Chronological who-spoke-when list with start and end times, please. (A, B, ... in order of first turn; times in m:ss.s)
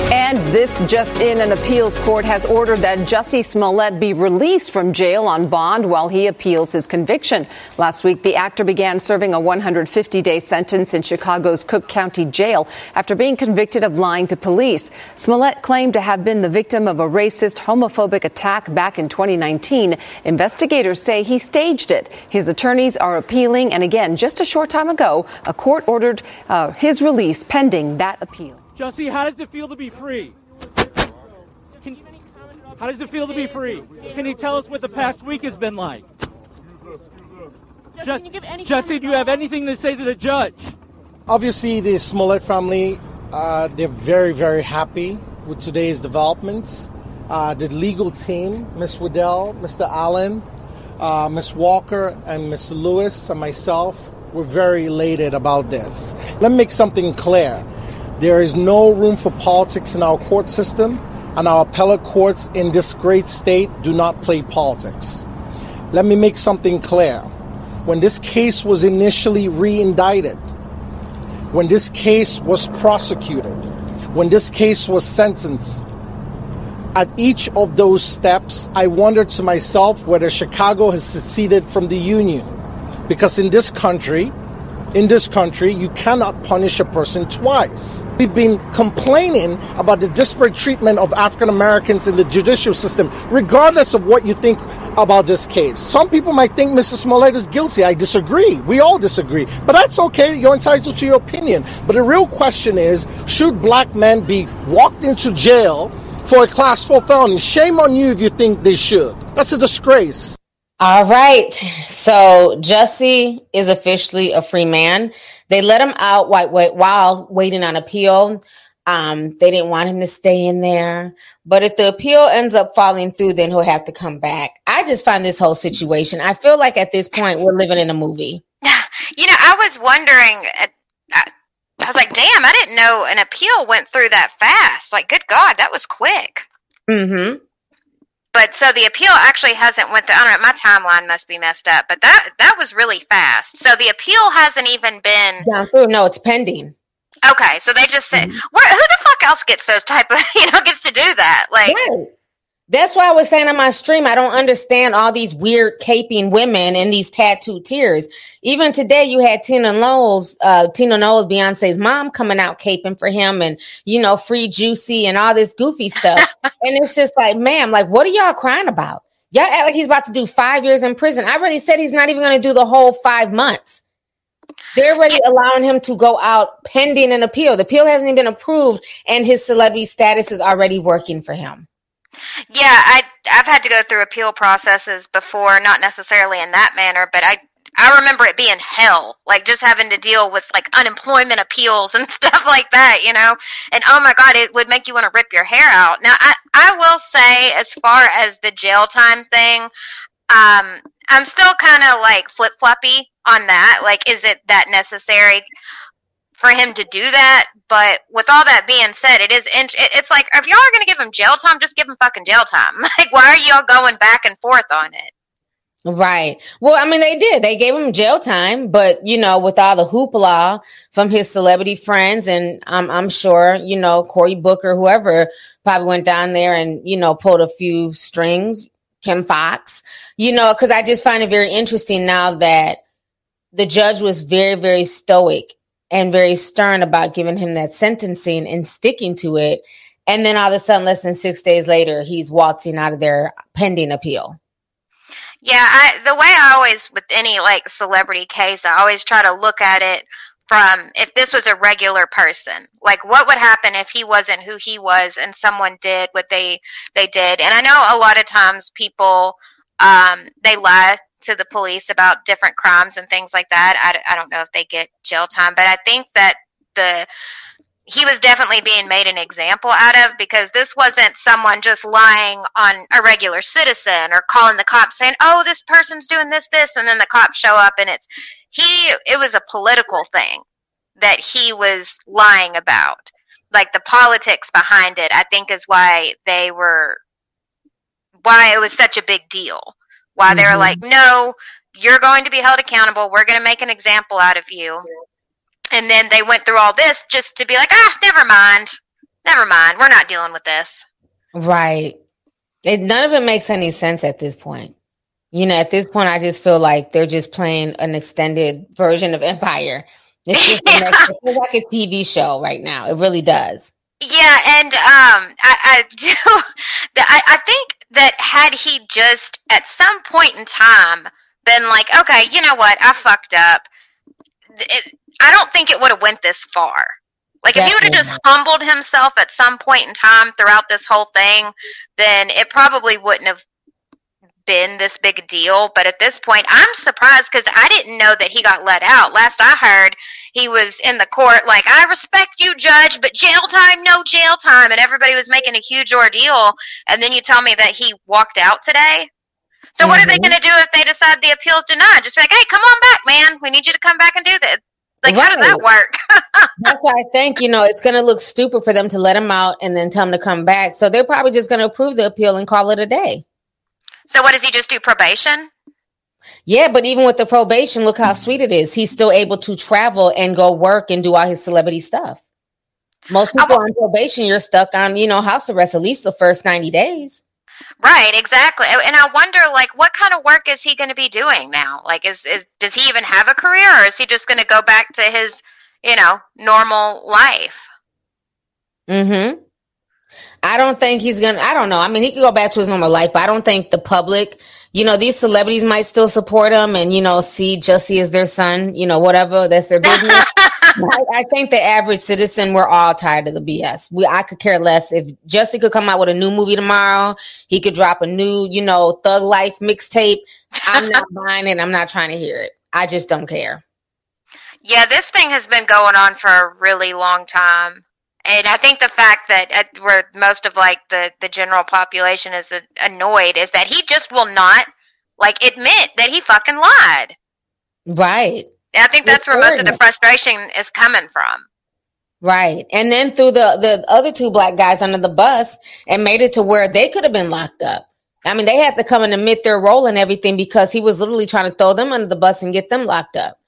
0:00.1-0:28.6 A
0:28.8-0:30.4 B
0:32.8-0:36.0 B
0:38.0-0:40.7 B
0:41.3-0:50.4 C
0:51.0-0:57.6 C
0:58.2-1:05.2 C
1:05.9-1:07.3 C
1:07.9-1:10.4 C
1:11.5-1:15.8 C
1:16.9-1:24.3 C
1:24.9-1:50.4 C
1:50.8-2:08.4 D
2:08.6-2:11.3 E
2:11.8-2:16.5 E
2:16.9-2:17.4 D
2:18.3-2:25.5 E
2:25.4-2:26.8 D
2:27.2-2:31.8 E
2:28.1-2:28.4 D
2:31.7-2:32.1 D
2:32.7-2:53.8 D
2:54.8-3:01.7 D
3:02.5-3:19.7 E
3:20.3-3:25.4 E
3:26.4-3:35.1 E
3:35.8-3:52.8 D
3:53.5-4:04.4 D
4:05.4-4:27.1 E
4:27.9-4:40.4 E
4:41.0-4:47.0 E
4:48.2-4:54.9 E
4:50.3-4:50.8 D
4:55.7-5:00.9 E
5:01.4-5:02.0 D
5:02.6-5:04.7 D
5:05.3-5:13.7 D
5:10.4-5:11.1 E
5:14.0-5:16.4 E
5:17.0-5:23.7 E
5:24.6-5:33.4 E
5:27.5-5:28.2 D
5:34.5-5:49.1 E
5:49.8-5:56.5 E
5:49.8-5:50.3 D
5:55.0-5:55.6 D
5:56.6-6:03.2 D
6:04.1-6:05.5 E
6:06.5-6:12.2 D
6:13.1-6:17.2 D
6:13.3-6:13.6 E
6:17.8-6:27.7 E
6:28.9-6:29.4 D
6:30.4-6:40.2 D
6:39.8-6:40.8 E
6:40.8-6:53.6 D
6:50.7-6:51.0 E
6:54.6-7:04.7 E
7:05.2-7:07.2 E
7:07.9-7:08.5 D
7:08.7-7:11.4 E
7:09.0-7:09.8 D
7:12.2-7:23.4 D